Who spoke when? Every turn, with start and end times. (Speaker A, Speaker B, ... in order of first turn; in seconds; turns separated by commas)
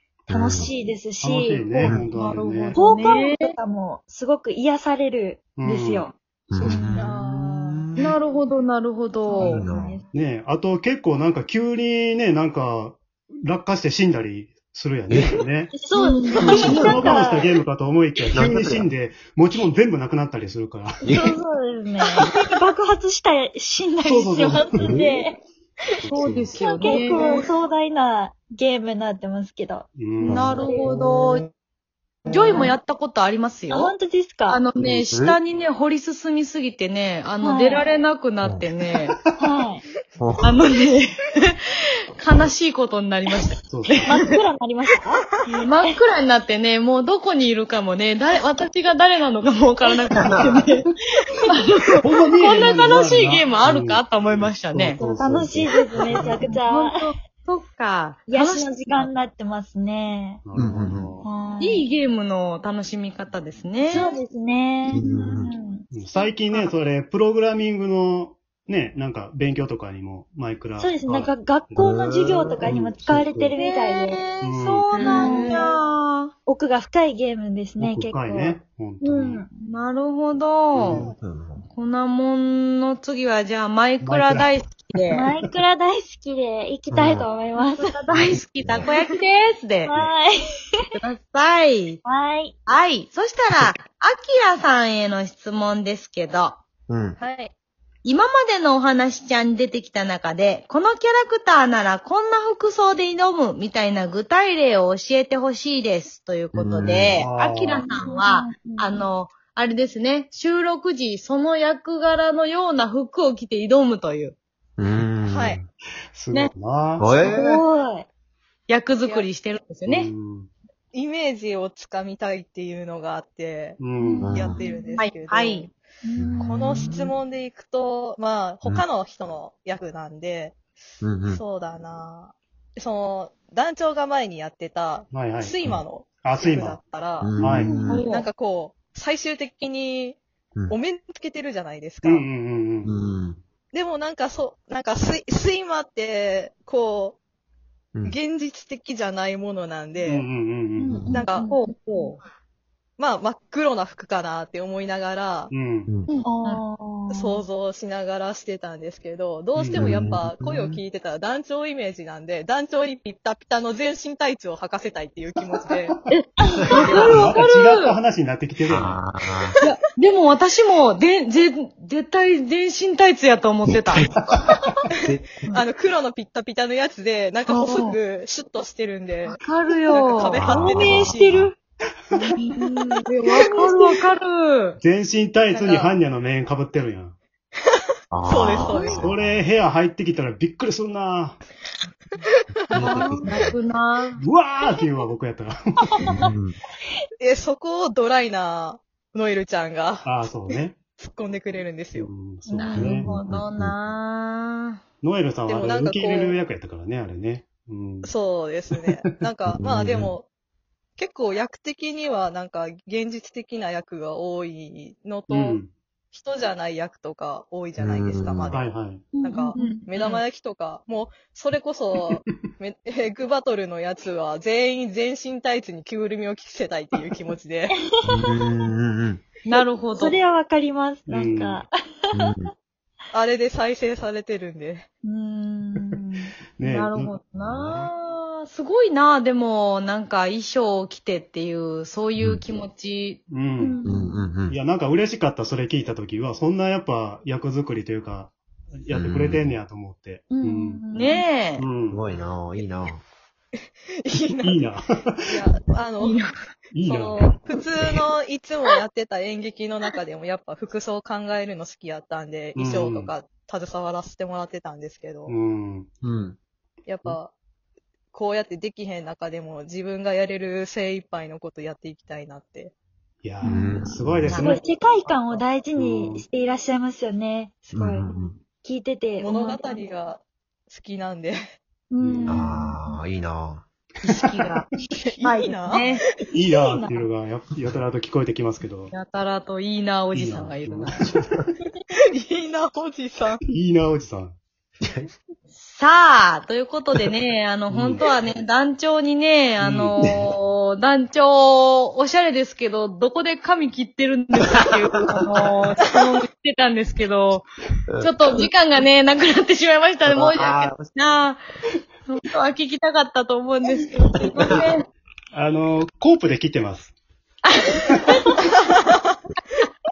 Speaker A: 0.3-0.7, Speaker B: 0.3-1.9, Speaker C: 1.2-2.8, Speaker A: 1.8-2.1, Speaker D: 2.1-3.5, Speaker B: 2.8-7.1, Speaker C: 5.5-6.1, Speaker A: 6.5-8.2, Speaker E: 6.7-7.8, Speaker D: 8.0-9.7, Speaker B: 9.2-10.0, Speaker C: 9.4-15.8, Speaker A: 9.5-10.0, Speaker A: 15.1-15.4, Speaker B: 15.7-17.4, Speaker D: 15.9-17.1, Speaker A: 16.3-17.1, Speaker C: 16.3-21.2, Speaker A: 18.3-18.9, Speaker A: 21.1-21.4, Speaker B: 21.2-25.4, Speaker C: 24.0-25.1, Speaker A: 24.1-25.1, Speaker D: 26.1-27.5, Speaker A: 26.2-26.5, Speaker B: 26.6-29.9, Speaker C: 26.8-27.2, Speaker C: 30.0-30.6, Speaker D: 30.2-31.5, Speaker A: 30.3-30.6, Speaker B: 30.6-30.9, Speaker D: 32.3-34.0, Speaker B: 32.5-32.8, Speaker B: 33.7-34.6, Speaker D: 34.5-39.2, Speaker A: 34.9-35.4, Speaker B: 37.4-37.8, Speaker A: 38.4-38.7, Speaker B: 39.4-39.8, Speaker A: 40.2-40.6, Speaker D: 40.4-41.5, Speaker D: 42.2-44.4, Speaker C: 43.7-44.1, Speaker B: 44.1-45.2, Speaker D: 45.5-55.0, Speaker A: 50.1-50.6, Speaker C: 52.0-56.4, Speaker B: 55.2-57.0, Speaker A: 56.0-56.4, Speaker D: 56.6-59.1, Speaker B: 58.3-60.4, Speaker C: 60.5-61.2, Speaker A: 60.6-61.2, Speaker B: 61.2-61.9, Speaker D: 61.6-64.2, Speaker B: 63.9-65.9, Speaker A: 64.8-65.6, Speaker C: 65.9-71.9, Speaker B: 70.8-74.2, Speaker A: 71.8-73.4, Speaker C: 72.6-73.6, Speaker D: 73.6-76.3, Speaker C: 74.4-74.9, Speaker E: 75.0-75.7, Speaker B: 75.0-75.6, Speaker B: 76.5-78.6, Speaker C: 77.8-79.4, Speaker D: 79.0-81.1, Speaker C: 80.8-81.2, Speaker A: 80.8-81.7, Speaker D: 81.7-85.3, Speaker C: 84.0-85.5, Speaker B: 85.2-88.0, Speaker A: 86.9-87.3, Speaker D: 87.5-89.9, Speaker A: 88.1-88.9, Speaker B: 89.9-90.3, Speaker D: 91.0-92.0, Speaker B: 92.0-92.6, Speaker D: 92.7-96.6, Speaker A: 96.9-97.2, Speaker E: 97.2-97.5, Speaker D: 98.0-114.4, Speaker A: 106.5-107.2, Speaker C: 107.2-107.8, Speaker B: 107.8-109.0, Speaker A: 114.8-115.7, Speaker E: 115.2-115.6, Speaker C: 116.2-117.2, Speaker A: 117.0-117.6, Speaker B: 117.2-118.1, Speaker D: 118.7-120.1, Speaker E: 119.0-119.3, Speaker C: 119.9-120.5, Speaker E: 120.9-125.7, Speaker C: 123.8-124.5, Speaker B: 124.0-124.9, Speaker A: 124.2-124.6, Speaker D: 125.0-125.7, Speaker B: 126.1-127.1, Speaker A: 126.2-127.1, Speaker E: 126.4-130.6, Speaker A: 131.0-131.4, Speaker E: 131.3-142.3, Speaker C: 135.1-135.6, Speaker C: 136.2-136.8, Speaker A: 137.2-138.0, Speaker C: 137.4-137.7, Speaker D: 137.9-138.3, Speaker C: 142.0-142.9, Speaker A: 142.8-143.4, Speaker E: 143.7-147.2, Speaker E: 148.0-150.3, Speaker C: 150.0-151.1, Speaker B: 150.8-152.1, Speaker E: 151.1-151.5, Speaker D: 151.4-152.2, Speaker E: 153.0-155.5, Speaker C: 155.5-155.9, Speaker A: 155.9-156.1, Speaker D: 156.1-156.6, Speaker B: 156.2-157.4, Speaker E: 157.1-166.0, Speaker C: 159.6-160.0, Speaker A: 159.8-160.8, Speaker D: 166.1-168.0, Speaker B: 166.4-167.1, Speaker E: 166.6-167.2, Speaker C: 167.0-169.0, Speaker A: 168.7-169.6, Speaker D: 169.6-174.5, Speaker A: 173.7-174.5, Speaker C: 174.3-174.7, Speaker A: 175.0-175.4, Speaker E: 175.5-181.5, Speaker D: 177.5-178.0, Speaker D: 179.3-180.5, Speaker A: 180.4-181.5, Speaker D: 182.3-184.8, Speaker E: 183.3-184.0, Speaker C: 184.8-187.2, Speaker E: 185.5-185.9, Speaker A: 188.1-189.4, Speaker E: 188.2-189.1, Speaker C: 188.9-191.4, Speaker A: 192.7-193.6, Speaker D: 192.7-194.2, Speaker C: 194.2-196.3, Speaker A: 196.1-196.6, Speaker E: 197.2-200.1, Speaker C: 200.0-200.8, Speaker E: 201.0-202.1, Speaker C: 201.9-203.1, Speaker D: 202.6-204.8, Speaker A: 202.7-203.8, Speaker C: 205.0-208.1, Speaker E: 205.5-206.4, Speaker E: 208.0-210.3, Speaker A: 209.6-209.9, Speaker C: 209.7-210.1, Speaker E: 211.0-215.6, Speaker C: 215.3-215.7, Speaker E: 216.1-227.8, Speaker A: 217.8-218.6, Speaker C: 218.5-219.1, Speaker B: 219.4-219.8, Speaker D: 219.6-220.2, Speaker B: 227.7-228.3, Speaker A: 228.1-229.2, Speaker D: 229.4-230.2, Speaker B: 230.0-232.4, Speaker C: 231.1-231.6, Speaker A: 232.1-232.5, Speaker E: 233.1-234.9, Speaker B: 235.0-236.3, Speaker C: 236.6-237.2, Speaker D: 236.6-243.2, Speaker A: 237.4-237.9, Speaker A: 242.2-242.4, Speaker C: 243.3-243.8, Speaker B: 243.6-244.2, Speaker A: 243.8-244.6, Speaker C: 244.5-250.8, Speaker A: 248.9-249.5, Speaker B: 250.3-251.3, Speaker D: 250.9-251.7, Speaker C: 251.6-252.0, Speaker A: 251.9-253.0, Speaker E: 254.0-254.6, Speaker C: 254.4-255.3, Speaker E: 255.3-256.2, Speaker D: 256.0-256.4, Speaker C: 256.7-258.0, Speaker E: 256.8-265.3, Speaker C: 262.6-263.1, Speaker C: 265.3-265.9, Speaker A: 266.0-266.4, Speaker E: 266.9-267.3, Speaker E: 268.1-272.7, Speaker C: 273.2-274.6, Speaker A: 273.4-274.4, Speaker B: 273.5-273.8, Speaker D: 274.3-274.6, Speaker B: 274.4-279.9, Speaker C: 275.7-276.2, Speaker A: 277.7-278.4, Speaker E: 279.2-281.4, Speaker B: 281.9-282.6, Speaker C: 282.0-282.4, Speaker A: 282.3-283.6, Speaker D: 284.0-284.7, Speaker E: 285.0-286.0, Speaker D: 285.2-286.1, Speaker C: 286.3-288.9, Speaker D: 288.9-291.1, Speaker C: 290.1-291.4, Speaker E: 292.1-293.4, Speaker C: 293.5-294.4, Speaker A: 294.8-295.1, Speaker D: 295.5-307.5, Speaker C: 297.7-298.0, Speaker C: 299.6-300.0, Speaker A: 300.0-300.3, Speaker A: 304.5-305.4, Speaker A: 307.9-308.4, Speaker D: 308.0-311.4, Speaker A: 310.1-310.9, Speaker D: 312.1-314.9, Speaker C: 315.3-316.9, Speaker D: 317.4-318.4